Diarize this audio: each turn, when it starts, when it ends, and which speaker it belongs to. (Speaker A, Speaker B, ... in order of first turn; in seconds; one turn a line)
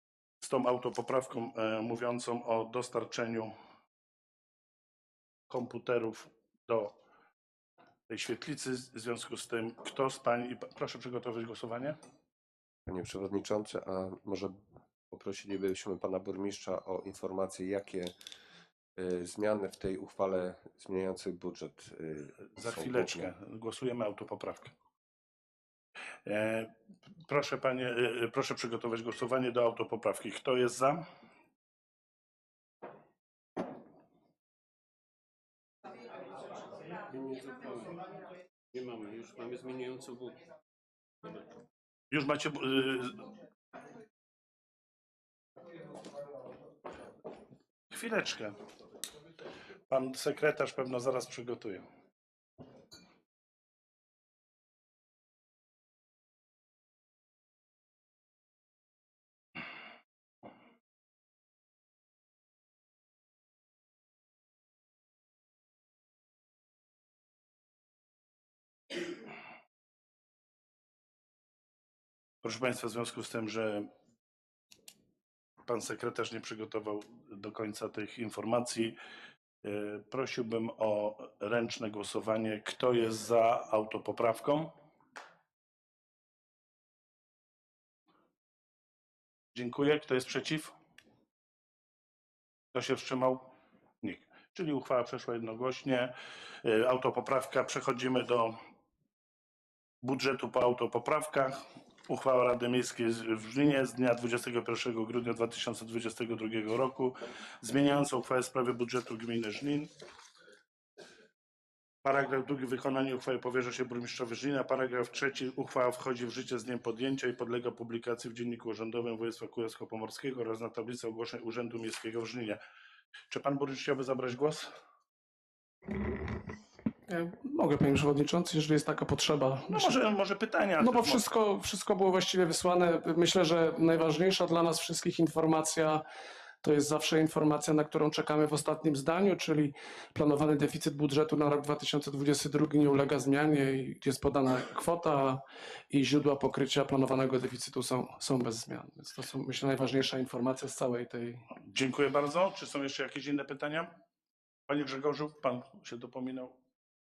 Speaker A: 0.4-3.5
Speaker A: 5.5-6.9
Speaker A: 8.1-12.0
Speaker B: 12.9-14.5
Speaker B: 15.1-18.1
Speaker B: 18.9-23.3
Speaker A: 22.5-24.7
Speaker A: 26.2-26.7
Speaker A: 27.2-31.0
Speaker C: 37.1-38.0
Speaker C: 38.7-40.4
Speaker A: 42.1-43.3
Speaker A: 47.9-48.6
Speaker A: 49.9-51.9
Speaker A: 72.4-73.9
Speaker A: 75.6-79.0
Speaker A: 79.6-84.7
Speaker A: 89.5-90.7
Speaker A: 92.7-93.5
Speaker A: 94.0-98.5
Speaker A: 100.0-109.9
Speaker A: 112.0-122.6
Speaker A: 123.3-124.7
Speaker D: 127.1-130.0
Speaker A: 129.7-131.3
Speaker D: 130.8-136.0
Speaker D: 136.6-151.5
Speaker A: 151.6-153.9
Speaker A: 154.7-156.5